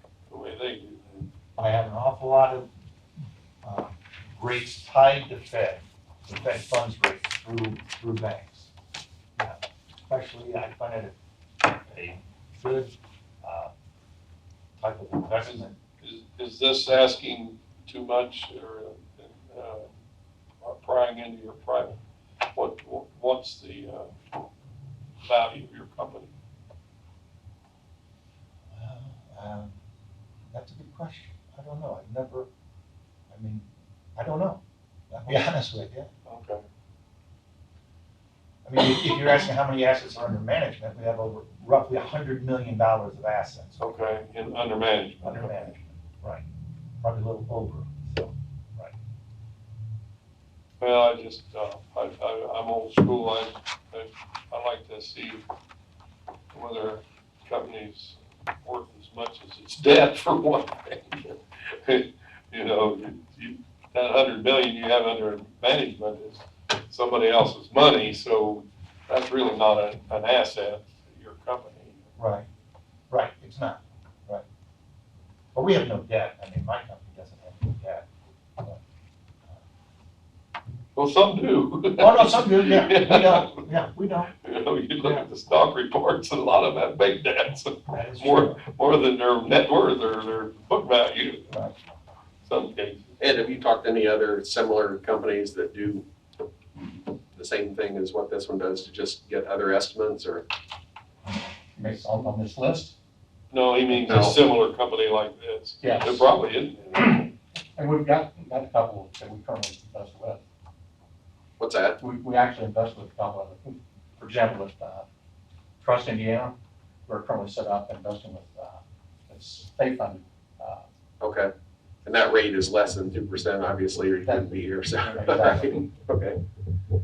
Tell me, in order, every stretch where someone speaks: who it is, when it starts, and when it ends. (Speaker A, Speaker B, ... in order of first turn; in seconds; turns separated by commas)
Speaker A: 0.3-1.3, Speaker B: 1.6-2.7, Speaker B: 3.6-8.7, Speaker B: 9.4-13.7, Speaker B: 14.8-15.8, Speaker A: 15.4-19.9, Speaker A: 20.6-22.0, Speaker A: 22.5-24.1, Speaker A: 25.2-26.3, Speaker B: 28.7-29.8, Speaker B: 30.5-32.5, Speaker B: 33.3-36.1, Speaker A: 36.3-36.6, Speaker B: 38.6-43.8, Speaker A: 43.8-45.7, Speaker B: 45.2-46.4, Speaker B: 47.0-49.0, Speaker A: 50.8-55.4, Speaker A: 56.5-72.1, Speaker B: 72.2-72.5, Speaker B: 73.1-74.5, Speaker B: 75.5-78.1, Speaker A: 81.0-83.7, Speaker B: 82.0-84.3, Speaker A: 84.4-91.5, Speaker B: 85.0-85.3, Speaker B: 87.9-88.6, Speaker A: 92.4-93.1, Speaker C: 93.2-96.1, Speaker C: 97.3-100.5, Speaker D: 101.8-103.0, Speaker A: 103.5-107.3, Speaker C: 104.0-104.4, Speaker D: 105.8-106.3, Speaker D: 107.0-110.4, Speaker C: 111.6-112.0, Speaker D: 112.0-115.1, Speaker D: 115.8-116.6, Speaker D: 117.1-120.8, Speaker C: 121.2-121.5, Speaker C: 122.0-126.4, Speaker D: 125.0-125.8